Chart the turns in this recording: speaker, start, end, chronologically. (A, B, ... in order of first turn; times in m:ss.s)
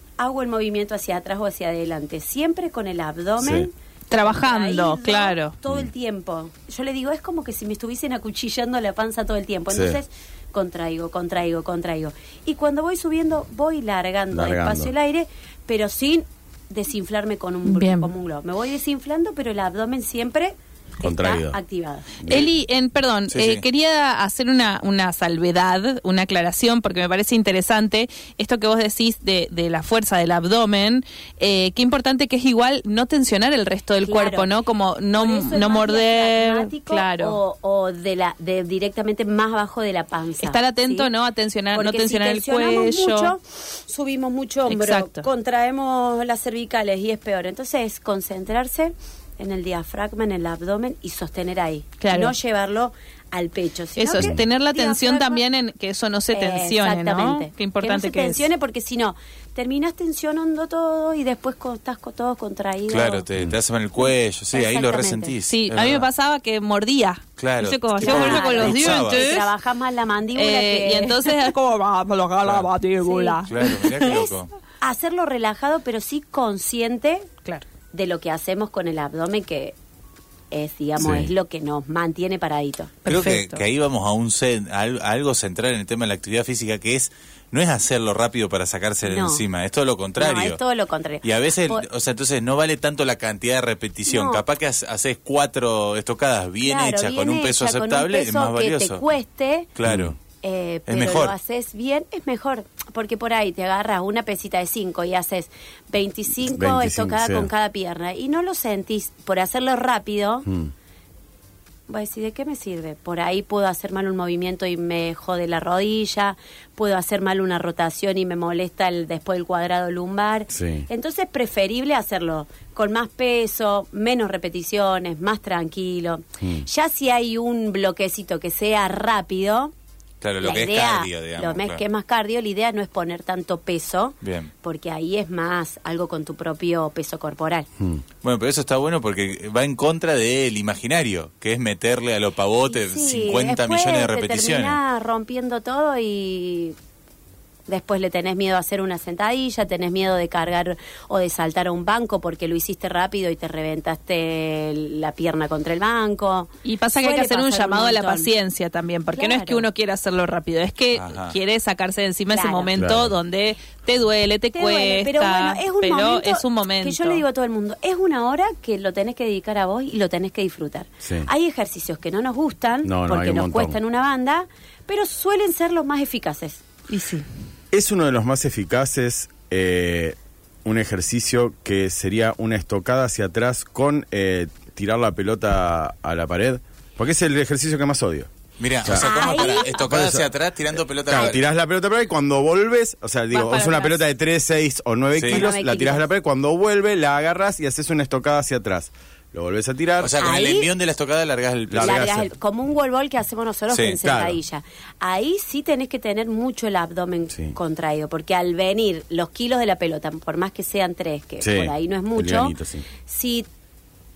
0:00.2-0:22.2 A
0:03.4-0:03.7 B
0:04.1-0:05.6 C
0:09.7-0:10.0 B
0:14.3-0:14.9 B
0:17.7-0:18.1 C
0:21.0-0:21.6 B
0:22.2-0:22.5 B
0:22.3-0:37.4 C
0:23.3-0:23.6 D
0:34.0-0:34.5 A
0:35.1-0:41.1 A
0:40.4-0:43.3 C
0:41.7-0:55.4 A
0:44.7-0:45.2 C
0:52.0-0:52.4 C
0:54.0-0:58.5 C
0:54.1-0:54.4 B
0:56.3-1:03.3 A
1:02.9-1:06.1 D
1:04.5-1:05.4 A
1:05.5-1:09.5 C
1:07.4-1:09.2 D
1:08.0-1:11.5 A
1:10.4-1:14.2 C
1:12.4-1:12.7 D
1:13.0-1:17.3 A
1:13.5-1:14.5 D
1:17.9-1:19.8 A
1:20.5-1:22.9 A
1:21.0-1:21.3 B
1:23.1-1:23.6 C
1:23.1-1:30.6 D
1:29.0-1:29.4 A
1:30.2-1:31.9 A
1:31.2-1:39.0 D
1:34.1-1:34.4 A
1:36.6-1:39.7 A
1:39.8-1:40.2 D
1:39.8-1:40.2 B
1:40.4-1:50.5 A
1:40.9-1:41.3 D
1:46.4-1:47.5 B
1:50.5-1:50.7 B
1:51.9-2:09.7 A
2:00.5-2:00.9 B
2:06.4-2:06.7 B
2:10.2-2:11.8 D
2:10.4-2:17.7 A
2:14.2-2:14.5 D
2:18.2-2:24.8 D
2:22.7-2:26.8 A
2:27.7-2:38.3 A
2:36.6-2:47.2 C
2:39.1-2:39.7 A
2:41.0-2:41.4 D
2:42.3-2:42.7 A
2:42.8-2:43.2 B
2:44.5-2:56.6 A
2:51.0-2:51.3 B
2:52.8-2:53.8 B
2:56.9-2:57.3 C
2:57.7-3:08.3 B
3:08.6-3:11.4 D
3:08.8-3:10.3 B
3:09.0-3:09.9 A
3:10.9-3:20.2 B
3:13.3-3:14.0 C
3:15.2-3:15.5 D
3:15.3-3:16.1 A
3:20.0-3:22.0 D
3:20.2-3:20.7 A
3:21.7-3:22.3 B
3:21.8-3:33.5 A
3:23.7-3:24.0 D
3:24.0-3:24.4 B
3:27.3-3:27.6 B
3:31.4-3:32.9 B